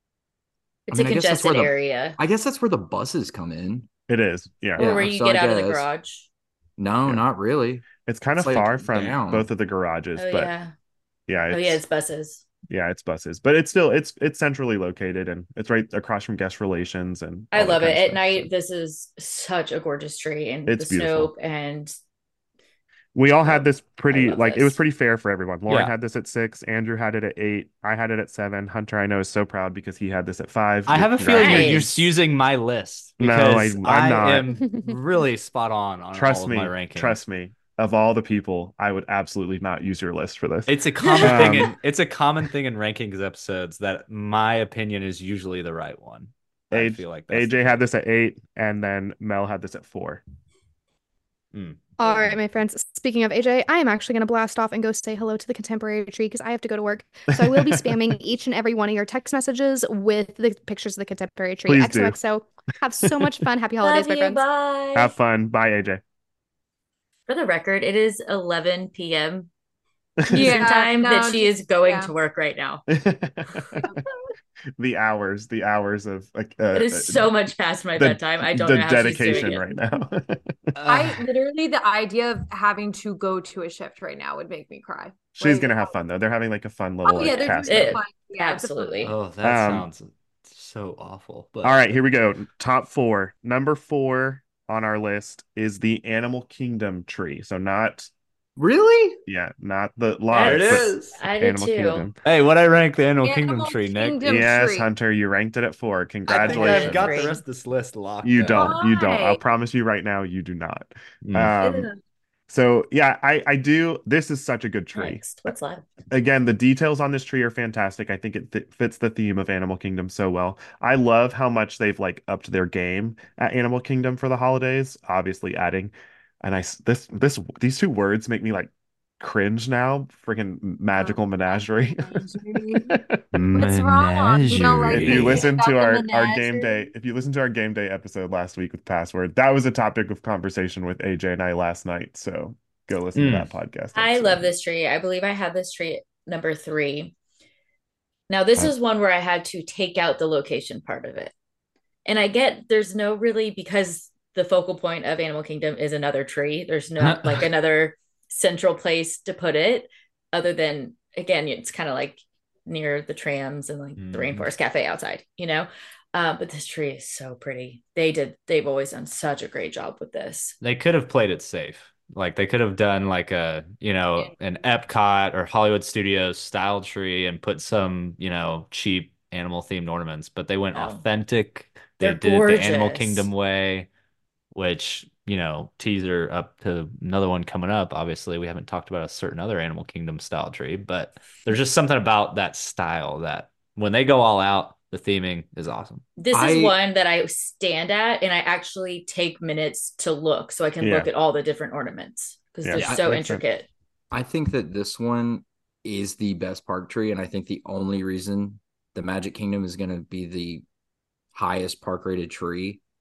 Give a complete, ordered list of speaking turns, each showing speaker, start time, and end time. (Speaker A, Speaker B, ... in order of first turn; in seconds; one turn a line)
Speaker A: 0.9-2.2
Speaker B: 0.9-3.9
Speaker C: 4.1-4.9
Speaker B: 4.8-5.9
Speaker A: 4.8-6.3
Speaker B: 6.8-9.5
Speaker C: 7.9-10.5
Speaker A: 10.2-10.7
Speaker C: 11.3-11.8
Speaker A: 11.5-12.4
Speaker C: 12.7-18.5
Speaker A: 17.5-21.9
Speaker C: 20.7-21.3
Speaker C: 23.1-32.0
Speaker A: 23.4-24.8
Speaker D: 25.7-25.9
Speaker D: 30.9-37.2
Speaker A: 31.3-31.9
Speaker C: 33.2-34.5
Speaker C: 36.1-41.7
Speaker D: 40.7-47.6
Speaker A: 41.0-41.5
Speaker C: 46.7-50.2
Speaker D: 51.5-51.8
Speaker E: 52.0-64.4
Speaker C: 57.3-57.9
Speaker C: 61.6-62.2
Speaker C: 63.0-63.3
Speaker A: 63.8-65.1
Speaker C: 64.9-66.0
Speaker A: 67.3-69.5
Speaker C: 70.2-70.5
Speaker F: 70.3-72.1
Speaker A: 70.3-72.8
Speaker C: 72.9-73.8
Speaker C: 74.8-77.3
Speaker A: 76.7-79.6
Speaker C: 78.0-80.6
Speaker D: 80.8-81.2
Speaker F: 80.8-85.9
Speaker C: 85.3-88.0
Speaker F: 87.0-89.1
Speaker A: 87.3-89.1
Speaker D: 89.0-91.9
Speaker C: 89.4-89.9
Speaker C: 91.6-98.1
Speaker B: 98.6-99.2
Speaker C: 99.3-102.1
Speaker A: 100.3-102.1
Speaker D: 100.3-101.2
Speaker D: 102.2-104.5
Speaker F: 103.2-104.9
Speaker C: 104.2-107.3
Speaker D: 106.3-108.8
Speaker A: 106.3-107.4
Speaker C: 108.2-111.9
Speaker F: 108.5-109.4
Speaker D: 111.2-111.5
Speaker F: 111.6-112.0
Speaker C: 112.5-115.4
Speaker A: 114.9-115.8
Speaker C: 116.1-133.2
Speaker F: 131.0-132.9
Speaker D: 133.3-135.5
Speaker F: 133.5-136.9
Speaker C: 134.9-144.5
Speaker D: 143.1-143.5
Speaker A: 143.9-147.1
Speaker A: 148.3-151.3
Speaker A: 152.1-170.6
Speaker D: 157.0-157.5
Speaker D: 164.0-164.5
Speaker D: 170.6-183.9
Speaker A: 180.7-181.0
Speaker A: 182.0-183.3
Speaker D: 184.5-196.2
Speaker A: 196.2-203.7
Speaker B: 196.3-196.8
Speaker C: 200.8-201.1
Speaker C: 202.6-203.4
Speaker B: 202.8-203.2
Speaker B: 204.1-210.6
Speaker B: 211.3-212.8